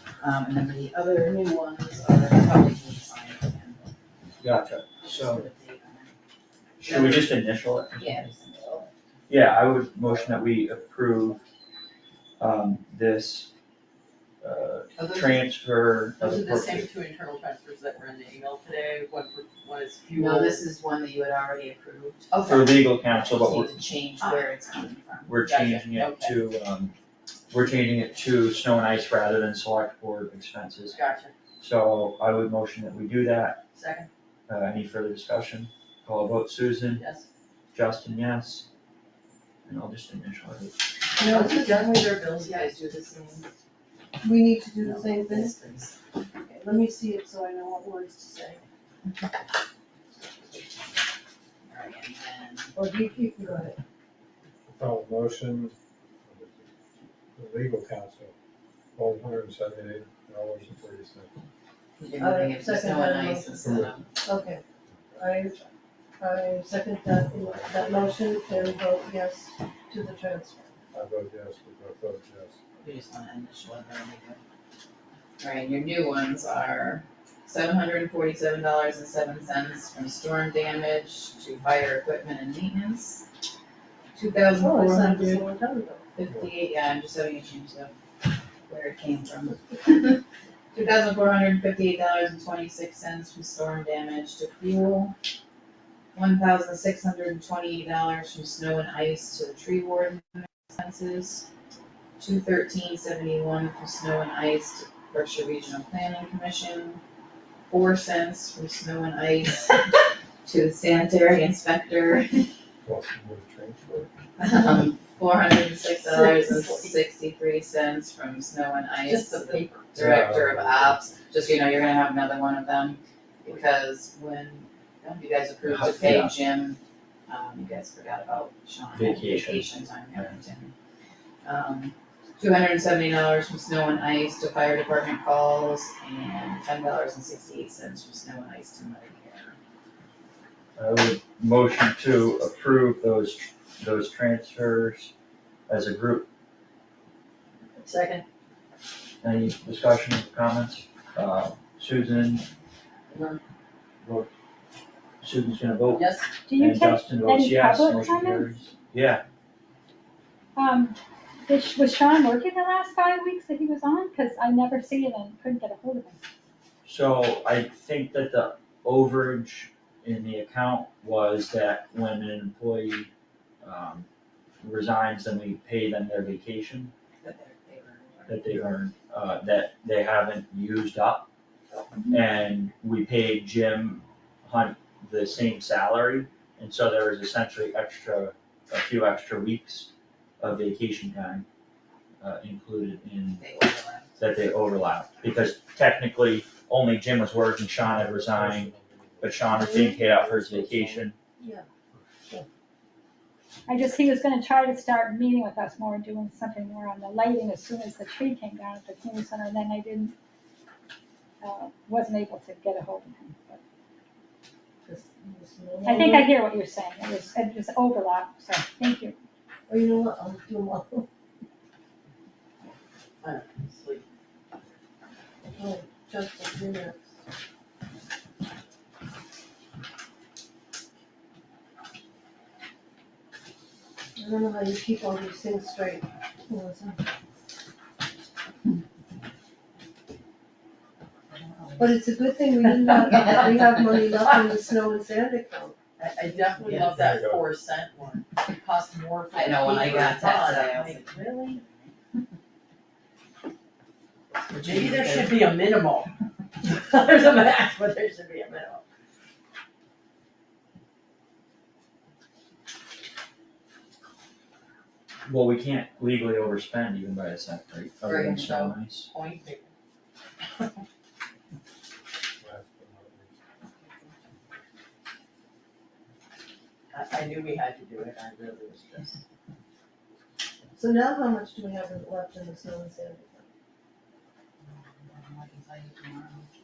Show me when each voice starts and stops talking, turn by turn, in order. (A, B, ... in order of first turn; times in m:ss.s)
0:00.2-0:03.9 A
0:04.4-0:05.4 B
0:05.0-0:06.2 A
0:06.8-0:08.2 B
0:06.8-0:08.9 A
0:09.3-0:11.4 B
0:12.4-0:13.5 B
0:14.4-0:16.9 B
0:15.0-0:15.5 A
0:16.2-0:20.6 C
0:20.1-0:25.4 A
0:22.5-0:23.7 B
0:24.2-0:24.5 C
0:25.3-0:26.9 B
0:25.4-0:26.4 C
0:27.5-0:31.0 B
0:30.9-0:31.4 C
0:31.6-0:33.6 B
0:33.7-0:34.1 C
0:34.5-0:37.0 B
0:36.9-0:37.3 C
0:37.7-0:38.7 B
0:39.7-0:40.8 B
0:41.2-0:42.8 C
0:41.2-0:41.9 D
0:41.2-0:41.5 A
0:42.3-0:43.5 A
0:44.2-0:45.6 D
0:44.8-0:46.0 A
0:46.4-0:48.6 D
0:51.7-0:52.7 A
0:52.7-0:53.8 D
0:54.7-0:56.7 E
0:57.4-0:58.3 E
0:59.0-1:01.3 E
1:02.0-1:04.0 A
1:02.2-1:03.6 D
1:03.6-1:04.0 E
1:04.2-1:04.6 D
1:05.2-1:10.8 D
1:07.4-1:08.8 E
1:10.9-1:12.6 E
1:12.8-1:14.4 A
1:15.4-1:23.2 A
1:24.1-1:25.5 A
1:24.5-1:26.1 D
1:26.2-1:27.9 A
1:28.7-1:30.2 A
1:30.7-1:35.1 A
1:36.1-1:41.4 A
1:42.2-1:47.0 A
1:47.7-1:49.8 A
1:50.4-1:52.5 A
1:52.8-1:54.1 E
1:54.4-2:10.7 A
1:56.1-1:57.0 C
1:59.0-1:59.9 C
1:59.9-2:01.1 E
2:05.6-2:06.3 B
2:08.9-2:10.3 B
2:11.4-2:19.6 A
2:20.8-2:25.1 B
2:25.7-2:26.3 B
2:27.8-2:28.2 C
2:29.2-2:32.4 B
2:33.1-2:33.4 A
2:34.0-2:34.3 B
2:35.2-2:39.2 B
2:35.9-2:36.4 C
2:36.4-2:38.7 F
2:40.6-2:46.2 F
2:46.8-2:53.1 B
2:53.6-2:54.1 B
2:54.6-2:56.9 B
2:57.2-2:58.4 A
2:58.3-3:01.3 B
3:02.1-3:11.4 B
3:12.2-3:13.5 B
3:13.4-3:14.2 A
3:14.2-3:21.2 B
3:17.8-3:21.1 E
3:19.5-3:20.0 D
3:21.4-3:21.7 D
3:23.7-3:30.1 F
3:31.4-3:33.6 F
3:34.8-3:36.3 D
3:35.8-3:39.1 F
3:39.7-3:41.1 D
3:43.2-3:44.0 C
3:45.5-3:47.0 D
3:54.2-3:57.0 D
4:01.3-4:02.0 A
4:01.8-4:05.8 D
4:06.0-4:11.6 C
4:06.6-4:07.5 E
4:09.3-4:11.9 A
4:14.5-4:16.1 C
4:14.5-4:15.3 A
4:16.6-4:18.8 C
4:25.2-4:29.1 B
4:28.0-4:28.8 A
4:29.1-4:29.7 C
4:32.4-4:33.3 E
4:36.9-4:39.2 C
4:40.8-4:43.5 D
4:44.6-4:46.5 A